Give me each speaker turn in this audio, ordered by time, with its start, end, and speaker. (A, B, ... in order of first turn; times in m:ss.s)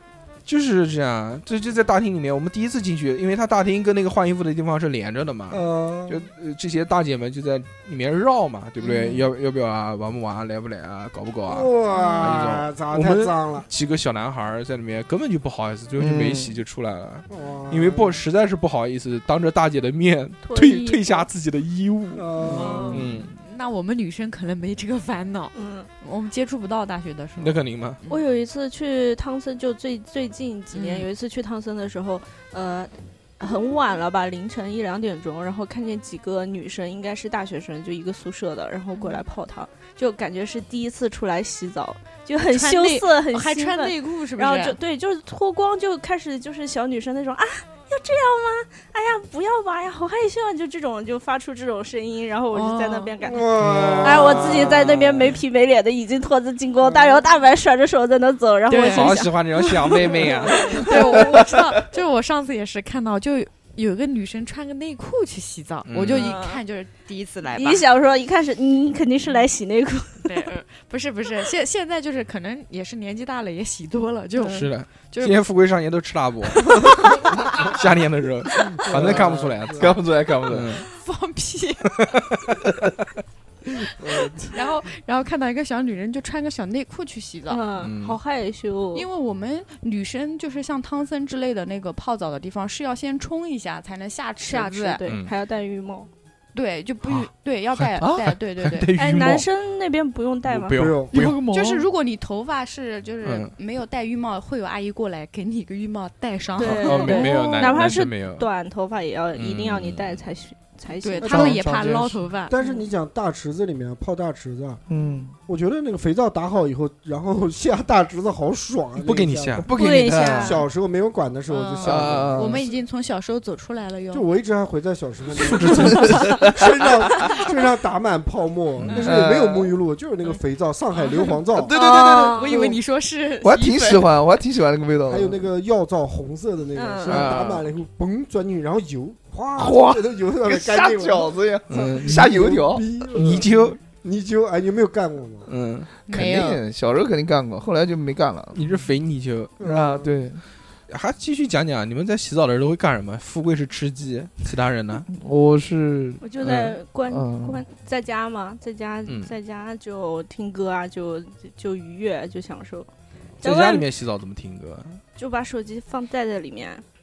0:00.4-0:23.3 A
0:05.5-0:06.2 B
0:08.8-0:09.2 C
0:11.4-0:13.7 B
0:11.9-0:12.3 C
0:16.0-0:16.5 D
0:17.3-0:18.2 B
0:20.4-0:21.3 E
0:22.1-0:23.0 B
0:22.5-0:28.2 C
0:22.6-0:23.0 E
0:25.5-0:25.9 E
0:27.4-0:28.0 A
0:28.1-1:01.4 E
0:30.7-0:31.1 C
0:38.9-0:39.2 C
0:42.4-0:44.8 C
0:52.5-0:53.1 C
0:53.2-0:55.3 B
0:53.6-0:54.2 A
0:56.8-0:57.2 B
0:58.7-0:59.3 C
0:58.9-1:00.8 A
1:00.7-1:07.8 C
1:05.9-1:06.3 A
1:06.1-1:06.6 E
1:07.5-1:10.6 E
1:10.2-1:15.4 C
1:14.4-1:14.7 E
1:14.5-1:20.8 A
1:18.8-1:20.0 B
1:18.9-1:20.7 D
1:20.9-1:22.0 C
1:24.5-1:27.7 C
1:27.5-1:29.1 E
1:27.8-1:28.2 A
1:28.9-1:35.0 C
1:34.4-1:36.1 E
1:35.0-1:35.3 A
1:36.5-1:38.9 C
1:37.0-1:39.5 A
1:39.0-1:40.8 E
1:40.5-1:41.4 A
1:40.7-1:41.1 B
1:41.1-1:41.8 D
1:41.1-1:47.8 C
1:43.2-1:43.5 A
1:46.6-1:51.6 E
1:46.7-1:48.5 A
1:49.3-1:50.2 A
1:51.0-1:52.5 C
1:51.2-1:54.8 B
1:51.3-1:52.1 D
1:54.9-1:55.4 D
1:55.4-1:59.7 B
1:59.0-1:59.7 A
1:59.6-2:00.6 D
1:59.7-2:00.6 E
2:00.4-2:02.7 B
2:01.5-2:04.2 C
2:01.8-2:02.6 D
2:04.1-2:11.7 B
2:05.4-2:06.4 A
2:05.6-2:06.9 D
2:08.8-2:09.2 A
2:09.0-2:09.7 D
2:11.0-2:14.1 C
2:11.6-2:12.7 D
2:11.7-2:12.6 E
2:13.4-2:15.4 D
2:15.1-2:25.5 B
2:16.7-2:17.3 E
2:17.1-2:17.6 A
2:19.6-2:22.8 D
2:21.7-2:22.4 A
2:23.1-2:23.8 A
2:25.5-2:25.9 A
2:26.1-2:26.6 C
2:26.1-2:28.6 D
2:28.5-2:29.6 A
2:29.6-2:30.3 B
2:29.6-2:30.4 D
2:30.9-2:35.1 A
2:35.1-2:36.2 D
2:36.2-2:42.9 E
2:36.4-2:36.8 A
2:37.1-2:37.6 D
2:39.0-2:39.3 A
2:43.4-2:43.9 E
2:43.4-2:45.0 A
2:45.2-2:46.8 E